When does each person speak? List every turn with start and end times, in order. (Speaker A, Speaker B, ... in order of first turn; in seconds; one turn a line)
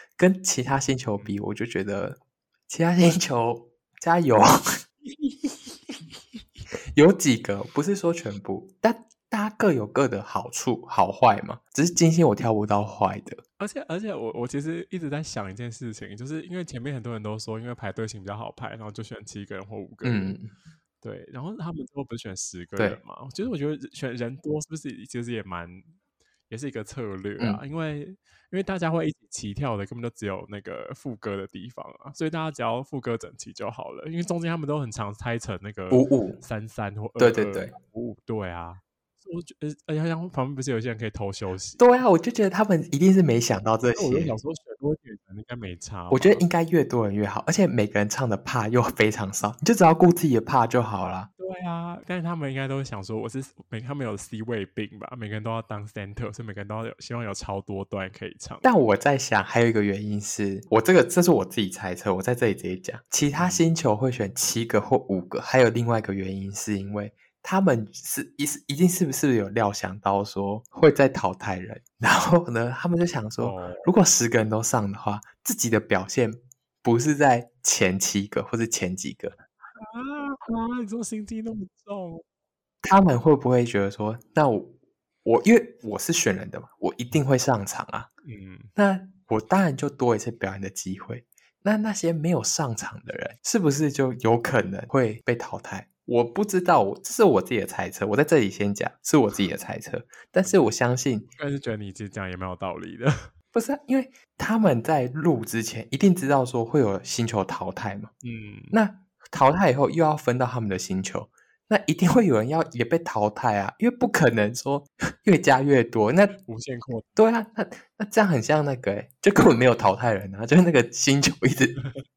Speaker A: 0.2-4.6
Speaker B: 5.1-5.5
Speaker A: 7.0-13.4
Speaker B: 13.6-20.4
Speaker A: 20.0-20.5
Speaker B: 21.0-25.9
Speaker B: 26.5-41.8
Speaker A: 35.9-36.4
Speaker A: 37.2-37.7
Speaker A: 41.8-44.3
Speaker B: 44.0-46.5
Speaker A: 46.1-51.3
Speaker B: 51.4-58.7
Speaker A: 58.6-79.4
Speaker B: 63.4-63.6
Speaker B: 73.4-73.9
Speaker B: 79.8-82.2
Speaker A: 82.8-84.7
Speaker A: 85.2-88.1
Speaker B: 88.2-88.7
Speaker A: 88.8-101.3
Speaker B: 101.4-103.3
Speaker A: 103.5-108.1
Speaker B: 108.2-108.8
Speaker A: 108.7-116.4
Speaker B: 116.4-117.2
Speaker A: 117.2-121.8